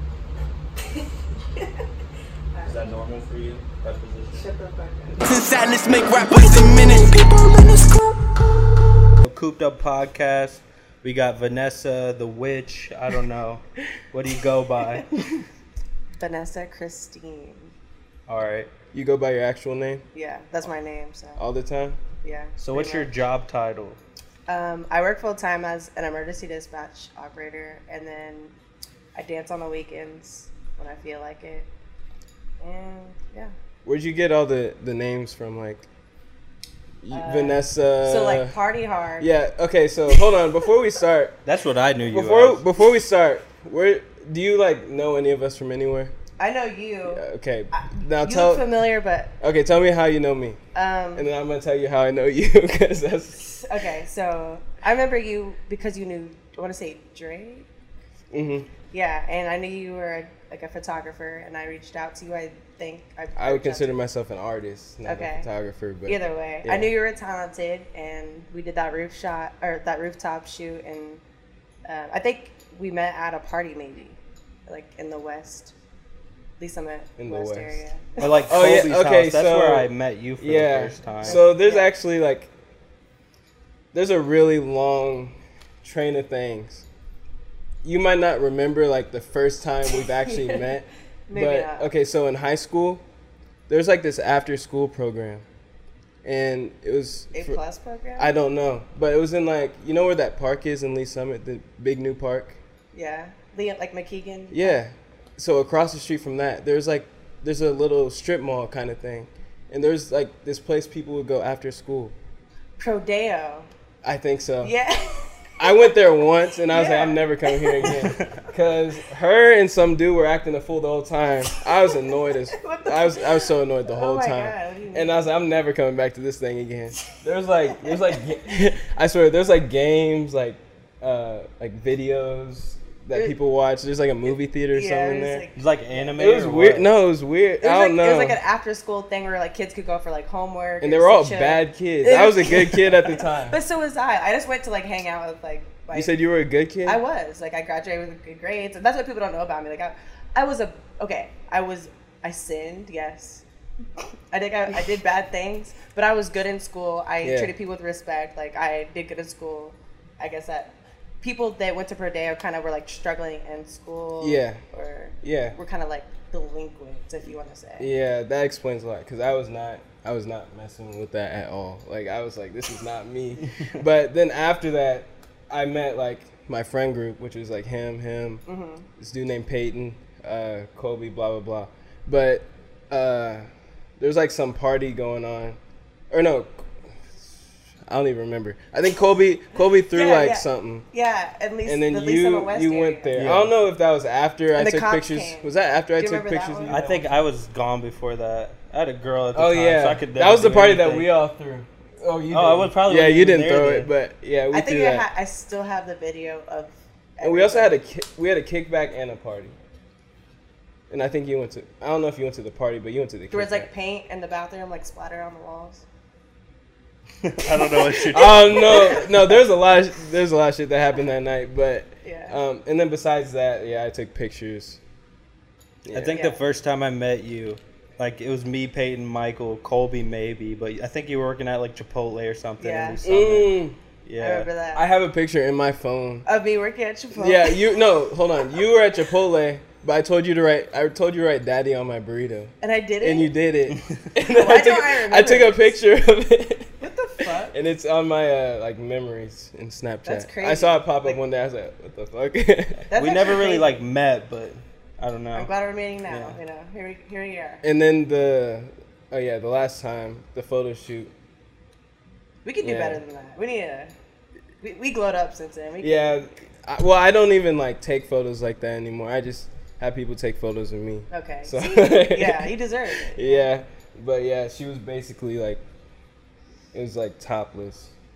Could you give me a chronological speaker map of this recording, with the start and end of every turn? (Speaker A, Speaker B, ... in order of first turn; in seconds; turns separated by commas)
Speaker A: 2.6-4.5, Speaker B: 4.3-5.3, Speaker C: 5.2-8.2, Speaker A: 9.2-15.2, Speaker B: 16.2-17.7, Speaker A: 18.3-18.7, Speaker D: 18.9-20.1, Speaker B: 20.1-21.4, Speaker D: 21.4-22.0, Speaker B: 22.2-23.1, Speaker A: 22.6-24.0, Speaker B: 24.5-28.6, Speaker B: 29.1-31.7, Speaker B: 32.6-33.5, Speaker D: 33.9-35.9, Speaker D: 37.0-38.5, Speaker B: 37.1-39.3, Speaker D: 39.2-41.4, Speaker A: 41.5-42.6, Speaker D: 42.1-46.1, Speaker B: 46.4-49.3, Speaker D: 47.1-48.7, Speaker D: 49.4-50.6, Speaker B: 50.7-51.3, Speaker D: 51.2-53.6, Speaker B: 53.5-57.7, Speaker D: 58.3-58.7, Speaker B: 58.9-64.0, Speaker D: 63.4-66.9, Speaker B: 65.0-65.5, Speaker B: 66.1-71.2, Speaker B: 71.9-75.7, Speaker B: 76.6-78.4, Speaker D: 77.2-77.8, Speaker A: 78.2-81.4, Speaker D: 78.5-82.5, Speaker B: 81.2-81.9, Speaker D: 83.9-86.9, Speaker D: 87.8-93.0, Speaker B: 89.9-90.7, Speaker B: 91.3-91.9, Speaker D: 93.7-95.5, Speaker D: 96.2-97.6, Speaker B: 97.3-98.3, Speaker D: 98.2-102.6, Speaker B: 102.9-104.8, Speaker D: 104.5-112.2, Speaker B: 112.8-113.7, Speaker D: 114.0-114.7, Speaker B: 114.6-116.0, Speaker D: 115.6-135.4, Speaker B: 116.7-118.3, Speaker B: 121.9-125.2, Speaker B: 127.8-128.2, Speaker B: 134.7-136.2, Speaker A: 135.6-136.9, Speaker D: 136.2-138.4, Speaker B: 137.6-146.1, Speaker D: 140.8-143.6, Speaker D: 145.9-147.0, Speaker B: 146.8-153.4, Speaker B: 154.3-167.9, Speaker D: 157.2-157.5, Speaker D: 164.2-164.6, Speaker D: 165.2-165.6, Speaker D: 167.8-178.4, Speaker B: 178.5-178.9, Speaker D: 179.0-183.5, Speaker D: 184.0-185.6, Speaker D: 186.1-190.9, Speaker B: 189.9-193.3, Speaker D: 191.7-196.9, Speaker A: 193.2-193.5, Speaker B: 194.6-197.0, Speaker A: 196.7-201.1, Speaker D: 199.3-205.1, Speaker A: 202.3-203.9, Speaker B: 204.5-207.8, Speaker D: 207.2-209.6, Speaker D: 210.9-213.7, Speaker B: 213.3-215.8, Speaker A: 217.2-218.9, Speaker B: 217.6-219.4, Speaker D: 218.1-224.8, Speaker B: 222.0-222.4, Speaker D: 225.8-226.2, Speaker A: 225.9-234.5, Speaker B: 226.1-226.4, Speaker B: 232.6-233.0, Speaker D: 233.0-233.8, Speaker B: 234.2-234.8, Speaker D: 234.7-236.3, Speaker B: 236.3-237.8, Speaker D: 237.1-252.8, Speaker B: 242.6-243.3, Speaker B: 244.2-245.7, Speaker B: 246.8-247.6, Speaker B: 250.1-251.2, Speaker B: 252.9-253.8, Speaker A: 252.9-255.5, Speaker B: 255.3-257.6, Speaker A: 256.1-256.4, Speaker D: 257.6-261.1, Speaker B: 262.4-263.9, Speaker D: 262.6-263.0, Speaker B: 264.6-266.2, Speaker D: 265.8-275.6, Speaker B: 271.1-273.5, Speaker D: 276.7-277.9